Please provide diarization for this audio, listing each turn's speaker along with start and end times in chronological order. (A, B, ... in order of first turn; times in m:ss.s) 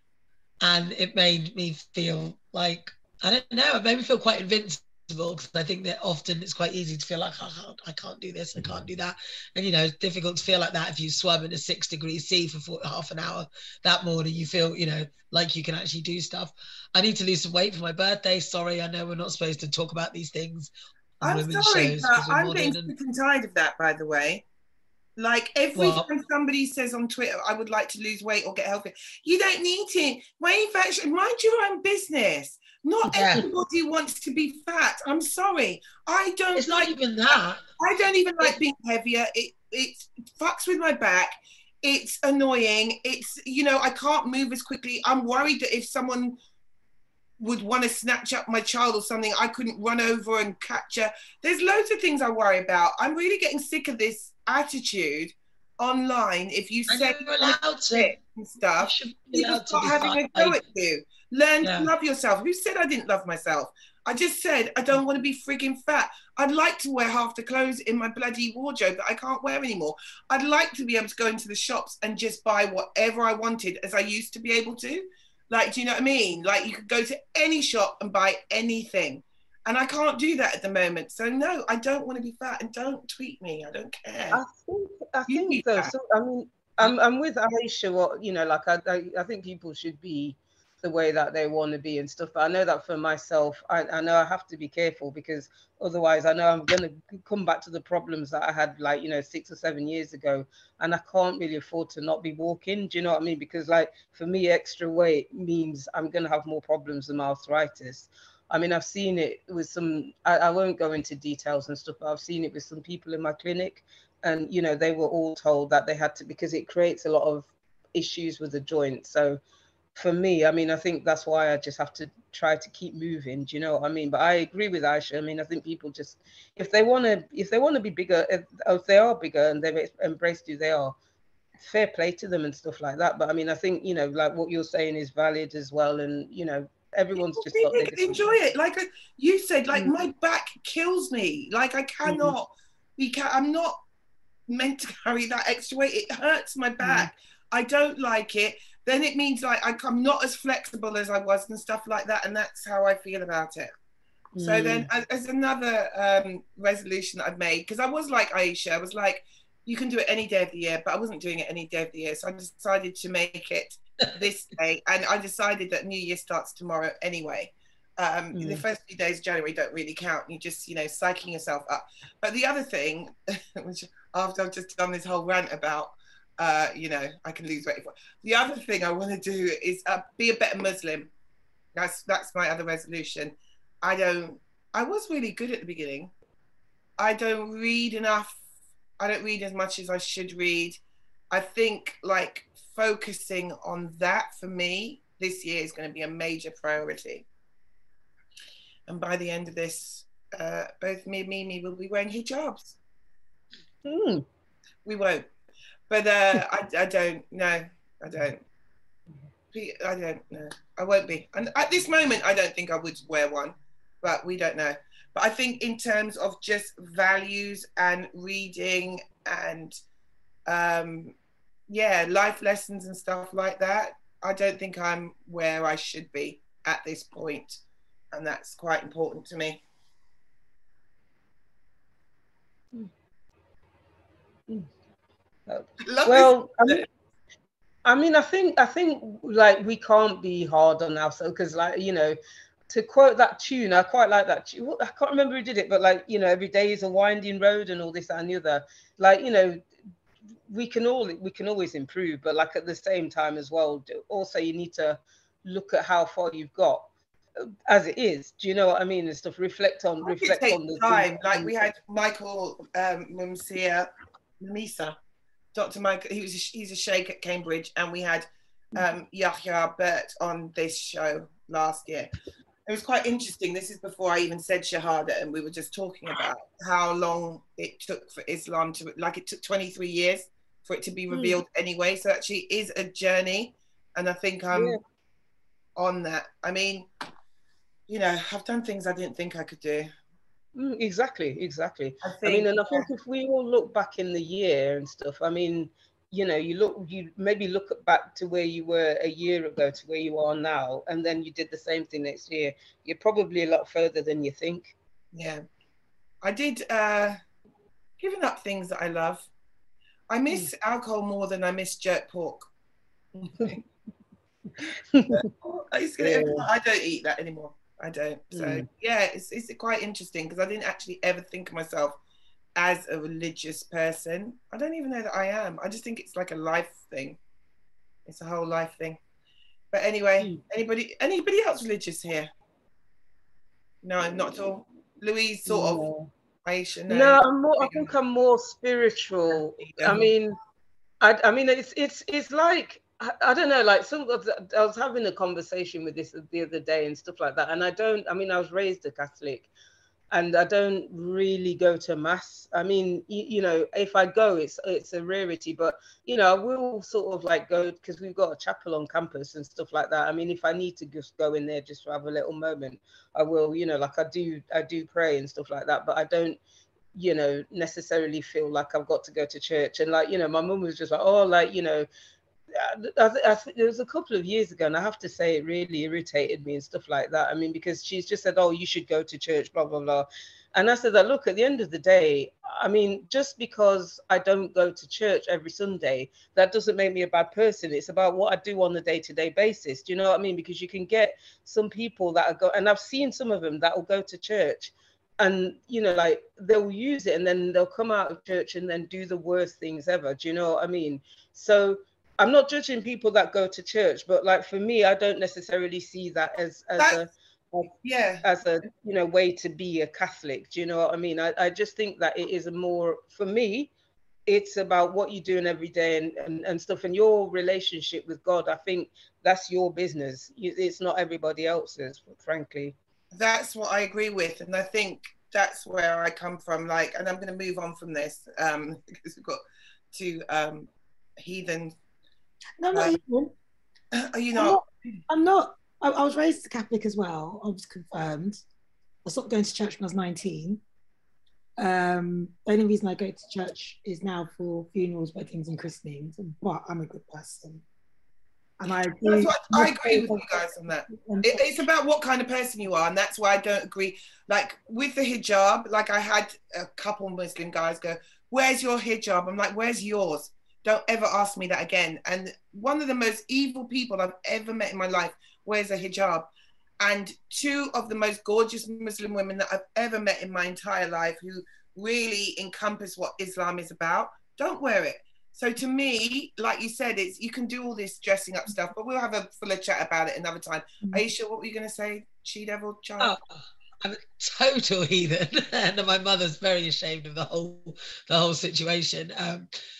0:00.6-0:22.9 A
0:21.2-0:24.4 B
0:25.2-0:36.9 B
0:25.8-0:26.1 A
0:33.0-0:33.5 A
0:36.6-0:37.6 A
0:37.8-0:46.4 B
0:47.4-1:24.4 B
0:56.9-0:58.1 A
0:58.8-1:00.6 A
1:01.6-1:01.9 A
1:24.3-1:59.4 C
1:25.3-1:25.9 B
1:59.9-2:11.0 C
2:11.6-2:18.3 C
2:17.3-2:23.8 B
2:19.7-2:20.0 C
2:22.0-2:22.3 C
2:24.5-2:33.7 B
2:26.8-2:27.1 C
2:34.3-2:34.9 C
2:34.4-3:01.1 B
2:48.3-2:48.6 C
3:01.7-3:06.1 B
3:07.0-3:08.4 B
3:09.0-3:17.2 B
3:18.9-3:22.8 B
3:23.8-3:24.2 C
3:24.8-3:25.2 B
3:25.9-3:28.4 B
3:29.5-3:39.8 B
3:40.5-3:41.1 B
3:41.7-3:47.6 B
3:48.1-3:49.6 B
3:55.5-3:56.8 C
3:55.8-3:56.8 B
3:57.8-4:02.2 C
4:02.7-4:09.6 C
4:10.5-4:21.6 C
4:20.0-4:24.9 B
4:25.5-4:32.1 B
4:32.7-4:44.8 B
4:41.1-4:41.4 C
4:44.5-4:44.8 C
4:45.8-4:46.9 B
4:47.9-4:49.9 B
4:50.5-5:04.7 C
4:52.0-4:52.9 B
5:05.1-5:05.4 B
5:06.2-5:07.2 B
5:08.0-5:09.3 B
5:10.1-5:12.5 B
5:13.2-5:13.6 B
5:14.6-5:15.3 C
5:15.1-5:22.0 B
5:16.0-5:16.5 C
5:18.3-5:18.6 C
5:22.6-5:27.2 B
5:28.0-5:29.0 B
5:29.7-5:32.3 B
5:33.8-5:35.8 B
5:35.5-5:36.1 C
5:36.4-5:37.9 B
5:36.9-5:40.4 C
5:39.3-5:40.1 B
5:41.0-5:49.5 C
5:50.1-6:06.4 C
6:06.9-6:11.9 C
6:12.5-6:47.7 C
6:47.8-6:48.2 B
6:48.2-6:53.7 C
6:54.3-7:02.8 C
7:03.1-7:09.4 B
7:09.9-7:11.7 B
7:12.6-7:13.3 D
7:13.9-7:15.0 B
7:14.3-7:18.4 D
7:19.0-7:20.6 D
7:21.6-7:27.6 D
7:28.6-7:31.6 D
7:29.0-8:03.1 B
8:03.0-8:09.5 A